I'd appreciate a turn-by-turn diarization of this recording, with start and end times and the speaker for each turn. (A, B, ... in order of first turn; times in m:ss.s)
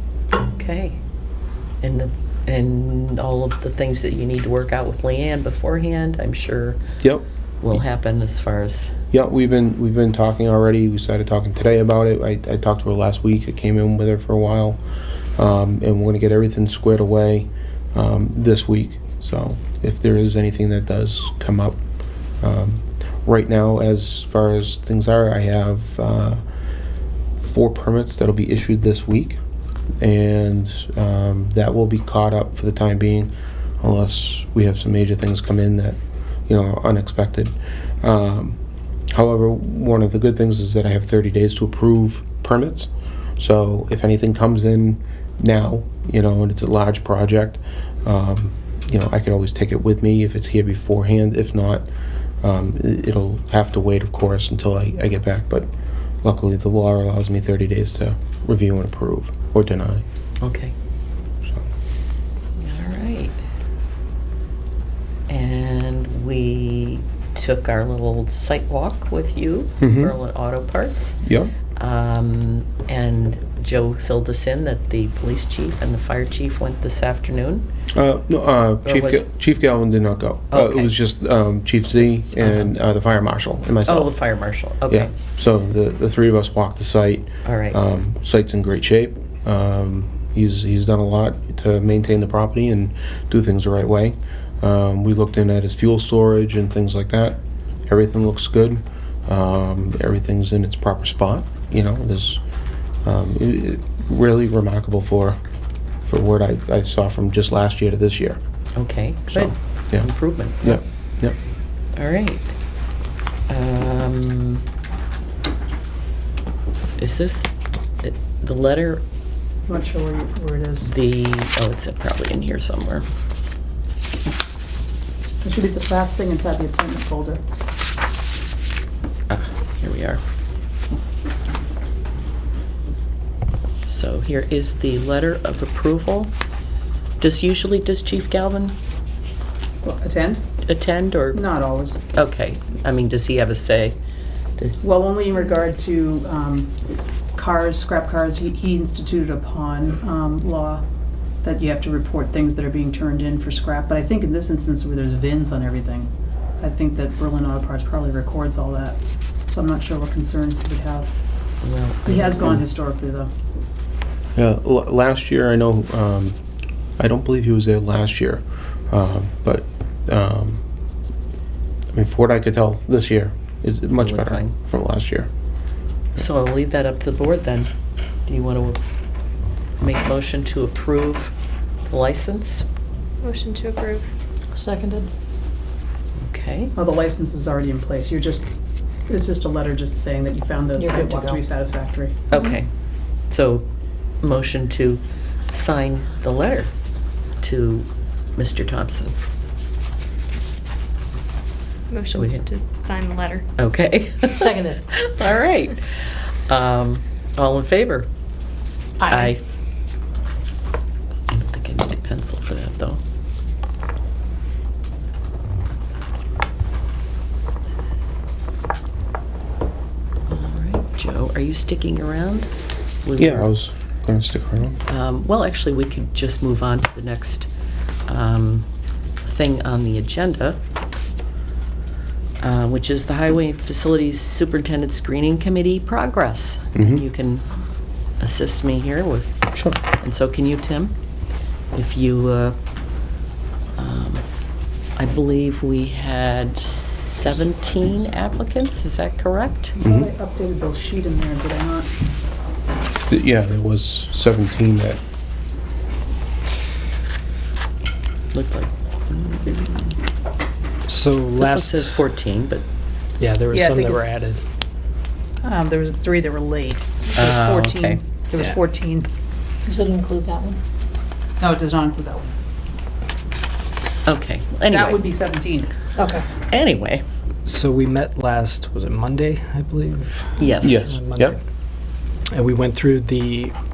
0:00.4-0:01.0 A
0:01.8-0:06.8 A
0:07.6-0:08.9 A
0:09.1-0:14.8 B
0:15.4-0:21.8 B
0:22.4-0:26.4 B
0:27.4-0:29.4 B
0:30.0-0:38.6 B
0:39.1-0:51.8 B
0:52.4-0:55.7 B
0:56.2-1:00.0 B
1:00.4-1:00.7 A
1:02.6-1:03.4 A
1:05.3-1:11.2 A
1:09.8-1:10.1 B
1:11.2-1:11.5 B
1:11.8-1:17.7 A
1:17.9-1:24.1 B
1:18.8-1:19.2 A
1:20.5-1:20.9 A
1:22.4-1:22.7 A
1:23.9-1:25.1 A
1:24.9-1:42.4 B
1:27.4-1:27.8 A
1:43.0-1:45.4 B
1:46.0-1:48.4 B
1:48.8-1:50.8 A
1:49.3-1:50.1 B
1:50.6-1:51.4 B
1:52.0-1:52.5 A
1:53.5-1:54.6 A
1:57.0-1:57.5 A
1:58.0-1:59.0 A
1:59.7-2:00.9 C
2:00.8-2:03.0 A
2:05.4-2:07.4 C
2:09.3-2:10.2 A
2:13.9-2:16.3 A
2:17.2-2:18.7 A
2:19.8-2:20.4 C
2:20.6-2:21.4 A
2:21.3-2:22.0 C
2:22.1-2:24.0 A
2:24.8-2:26.7 C
2:27.3-2:30.8 C
2:31.4-2:41.1 C
2:41.6-2:42.5 A
2:42.0-2:43.3 C
2:44.4-2:46.4 B
2:47.0-2:50.6 B
2:51.9-2:55.3 B
2:54.0-2:54.5 A
2:56.2-2:57.7 A
2:58.3-2:58.8 A
2:59.8-3:01.3 A
3:01.9-3:02.6 A
3:03.2-3:04.1 D
3:04.5-3:05.1 E
3:06.2-3:06.7 A
3:06.7-3:08.4 C
3:09.0-3:12.2 C
3:10.8-3:11.4 E
3:12.3-3:12.7 A
3:12.3-3:12.6 D
3:13.3-3:13.6 A
3:14.2-3:16.7 A
3:17.4-3:17.8 A
3:18.4-3:19.1 A
3:21.9-3:23.4 D
3:22.1-3:22.5 A
3:23.6-3:28.1 A
3:24.3-3:24.8 E
3:29.0-3:29.4 E
3:29.0-3:29.4 A
3:31.3-3:33.0 A
3:40.3-3:42.5 A
3:43.0-3:43.5 A
3:43.2-3:44.8 B
3:44.9-3:47.5 A
3:48.1-3:48.6 A
3:49.2-3:50.6 A
3:52.4-3:57.4 A
3:56.7-3:57.0 B
3:58.2-4:00.9 A
4:01.7-4:02.6 A
4:03.8-4:04.2 A
4:05.0-4:09.7 A
4:09.8-4:10.1 B
4:09.8-4:11.9 C
4:13.1-4:15.0 B
4:18.3-4:20.0 A
4:20.9-4:22.0 F
4:21.4-4:22.6 A
4:23.2-4:24.4 F
4:23.5-4:24.0 C
4:25.4-4:29.1 C
4:27.2-4:28.0 A
4:29.6-4:30.6 E
4:31.4-4:32.3 C
4:34.0-4:35.1 A
4:34.7-4:35.7 C
4:36.0-4:36.3 E
4:36.3-4:37.0 A
4:37.4-4:41.4 F
4:40.4-4:40.8 A
4:40.6-4:41.4 B
4:42.3-4:43.5 F